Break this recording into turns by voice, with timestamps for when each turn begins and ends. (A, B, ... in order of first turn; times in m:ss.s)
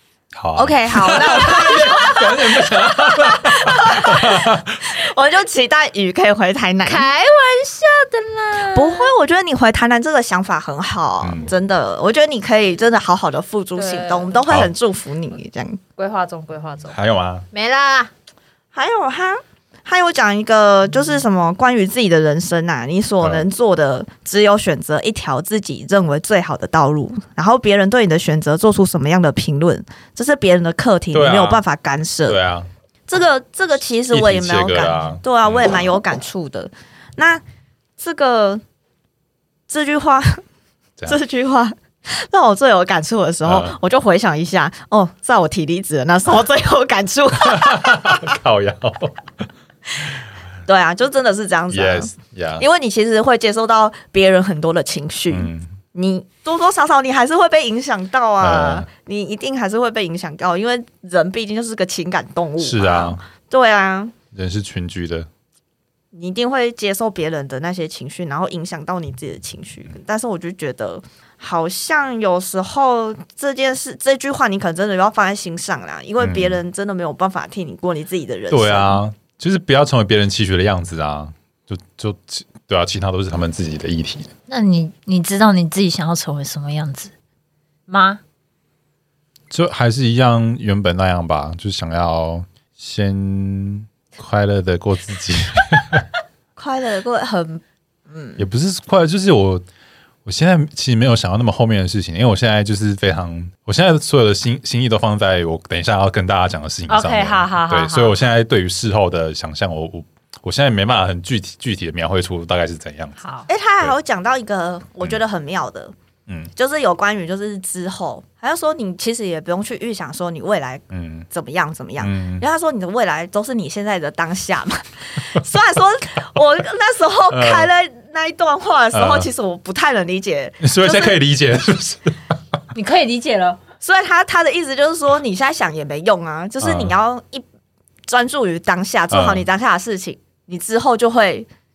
0:00.4-0:04.8 A
0:00.6-0:07.1 B
0:01.5-0:02.2 C
0:06.8-0:09.1 C
0:08.7-0:15.8 B
0:11.2-0:11.5 A
0:13.8-0:14.6 C
0:16.0-0:17.0 C
0:16.9-0:17.4 A
0:17.5-0:18.1 C
0:18.7-0:32.4 B
0:31.1-0:31.6 A
0:32.3-0:32.7 A
0:33.1-0:37.4 B
0:34.1-0:35.7 A
0:38.0-0:38.6 B
0:39.7-0:40.4 B
0:41.1-0:48.4 B
0:43.4-0:43.8 A
0:47.4-0:49.2 A
0:50.7-1:04.1 B
0:51.7-0:52.6 A
0:55.3-0:55.8 A
0:58.4-0:58.9 A
1:02.6-1:03.2 A
1:04.3-1:05.3 A
1:06.1-1:19.0 B
1:16.2-1:16.6 A
1:18.5-1:24.3 A
1:24.5-1:27.1 C
1:27.9-1:28.2 C
1:29.5-1:36.0 A
1:36.6-1:38.4 B
1:38.4-1:39.6 A
1:40.2-1:53.2 A
1:46.9-1:48.2 C
1:53.2-1:53.5 C
1:53.5-1:55.9 B
1:56.3-1:56.5 A
1:56.6-2:11.2 B
2:00.9-2:01.3 A
2:02.0-2:02.4 A
2:07.3-2:07.7 A
2:08.9-2:09.3 A
2:10.6-2:12.3 A
2:12.7-2:13.6 C
2:13.8-2:17.4 B
2:16.6-2:16.9 A
2:18.1-2:21.5 B
2:19.1-2:19.5 A